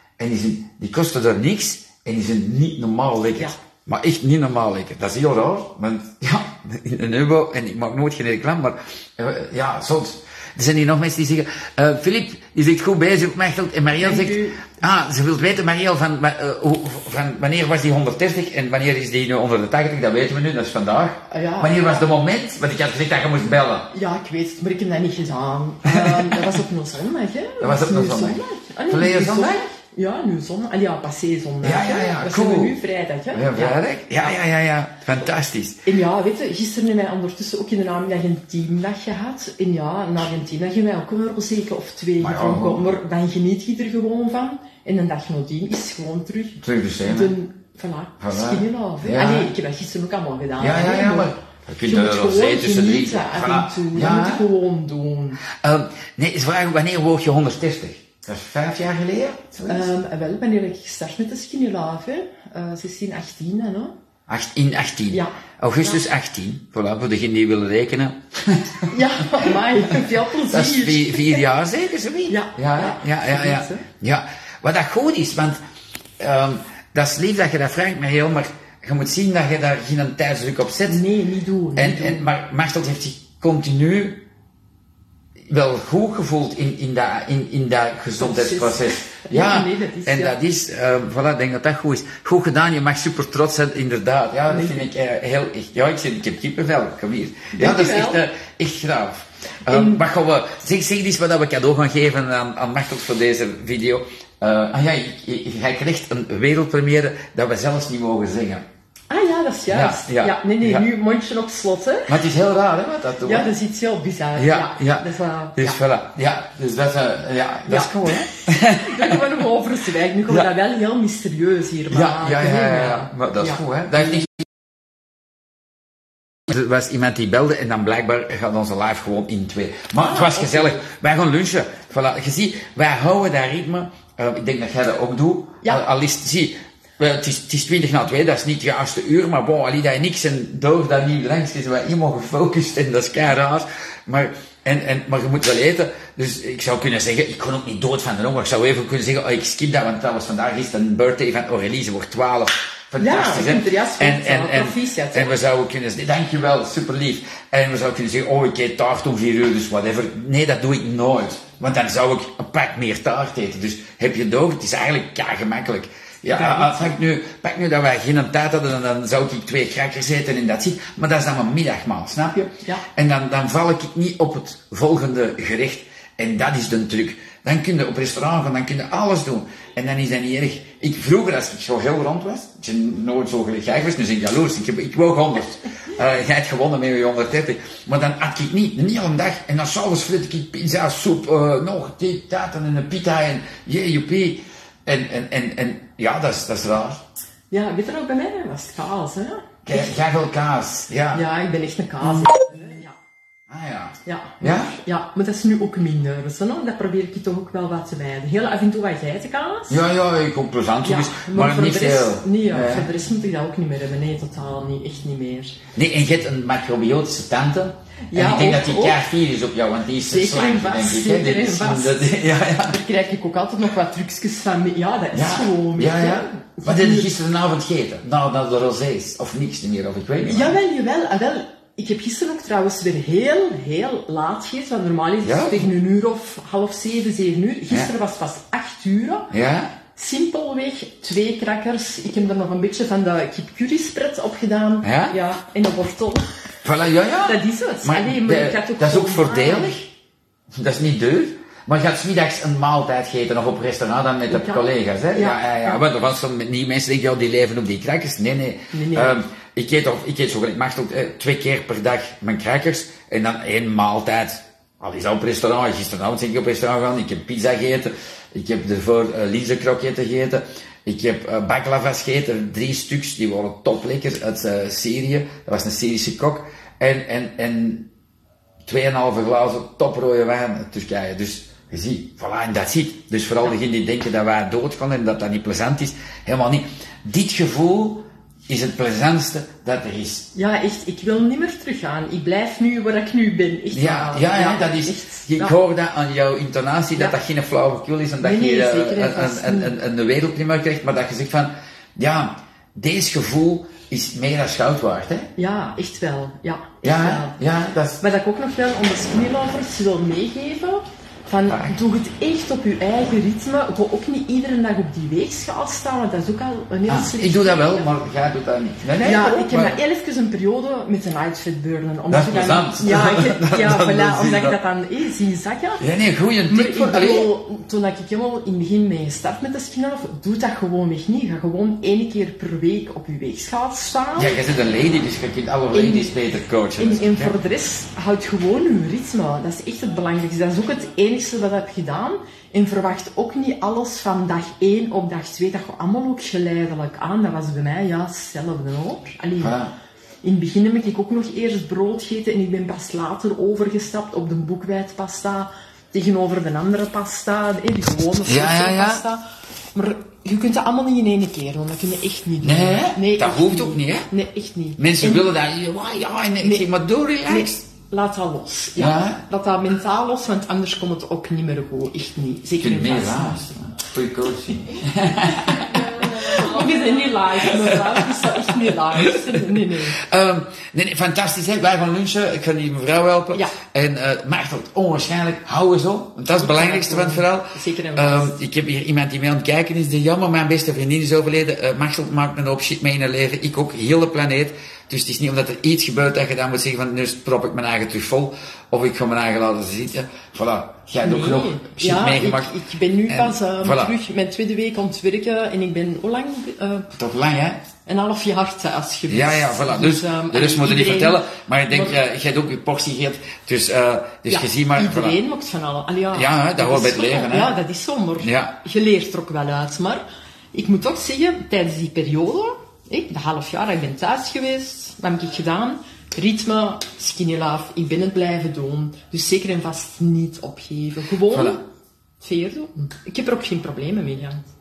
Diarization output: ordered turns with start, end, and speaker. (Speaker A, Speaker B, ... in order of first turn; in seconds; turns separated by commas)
Speaker A: 0.2-23.9, Speaker B: 13.9-14.7, Speaker B: 21.3-22.1, Speaker B: 23.9-33.8, Speaker A: 25.8-26.5, Speaker A: 27.6-29.6, Speaker A: 31.6-32.8, Speaker A: 33.3-35.8, Speaker B: 35.8-51.3, Speaker A: 42.2-42.9, Speaker A: 46.6-47.3, Speaker A: 48.2-49.5, Speaker A: 50.6-54.5, Speaker B: 51.9-55.4, Speaker A: 55.6-59.9, Speaker B: 59.7-63.9, Speaker A: 64.3-75.6, Speaker B: 65.1-66.0, Speaker B: 68.9-71.4, Speaker B: 72.3-73.8, Speaker A: 76.2-81.0, Speaker B: 80.9-82.3, Speaker A: 81.8-84.2, Speaker A: 85.5-108.6, Speaker B: 88.2-90.4, Speaker B: 94.5-94.9, Speaker B: 97.5-98.2, Speaker B: 99.7-100.0, Speaker B: 109.1-112.2, Speaker A: 109.7-110.8, Speaker A: 112.1-113.5, Speaker B: 113.2-115.8, Speaker A: 114.3-115.0, Speaker A: 115.6-119.2, Speaker B: 117.7-124.2, Speaker A: 121.9-124.3, Speaker A: 126.5-197.0, Speaker B: 130.0-130.8, Speaker B: 153.0-155.4, Speaker B: 166.3-166.9, Speaker B: 197.5-199.9, Speaker A: 199.6-201.2, Speaker B: 201.1-202.9, Speaker A: 203.5-204.8, Speaker B: 204.0-209.8, Speaker A: 209.7-212.9, Speaker B: 210.8-215.6, Speaker A: 215.7-222.8, Speaker B: 218.1-219.0, Speaker B: 220.0-222.1, Speaker B: 222.6-227.1, Speaker A: 225.1-230.6, Speaker B: 230.2-239.3, Speaker A: 235.2-235.7, Speaker A: 239.3-239.8, Speaker B: 239.9-246.2, Speaker A: 244.8-245.1, Speaker A: 246.6-249.8, Speaker B: 247.2-249.8, Speaker A: 250.5-277.9, Speaker B: 254.3-255.8, Speaker B: 258.7-259.2, Speaker A: 278.6-290.3, Speaker B: 290.3-295.6, Speaker A: 293.7-305.3, Speaker B: 298.2-299.8, Speaker B: 305.4-307.3, Speaker A: 306.8-308.0, Speaker B: 308.0-317.9, Speaker A: 311.5-311.8, Speaker A: 316.9-319.8, Speaker B: 319.0-325.8, Speaker A: 322.1-324.6, Speaker A: 325.8-327.3, Speaker B: 326.5-334.4, Speaker A: 334.1-337.4, Speaker B: 335.7-336.1, Speaker B: 336.8-349.6, Speaker A: 349.4-349.7, Speaker B: 350.2-359.2, Speaker A: 358.2-359.0, Speaker B: 359.7-365.3, Speaker A: 362.4-364.1, Speaker A: 364.8-367.6, Speaker B: 366.4-366.7, Speaker B: 367.2-373.5, Speaker A: 368.8-369.2, Speaker A: 372.6-376.6, Speaker B: 375.5-380.0, Speaker A: 377.4-377.8, Speaker A: 378.5-379.1, Speaker A: 380.0-402.5, Speaker B: 386.4-388.4, Speaker B: 401.0-406.9, Speaker A: 403.1-403.9, Speaker A: 406.9-407.6, Speaker B: 407.8-412.0, Speaker A: 409.1-415.2, Speaker B: 414.3-431.6, Speaker A: 416.1-417.6, Speaker A: 418.2-418.5, Speaker A: 431.2-431.6, Speaker B: 432.2-434.4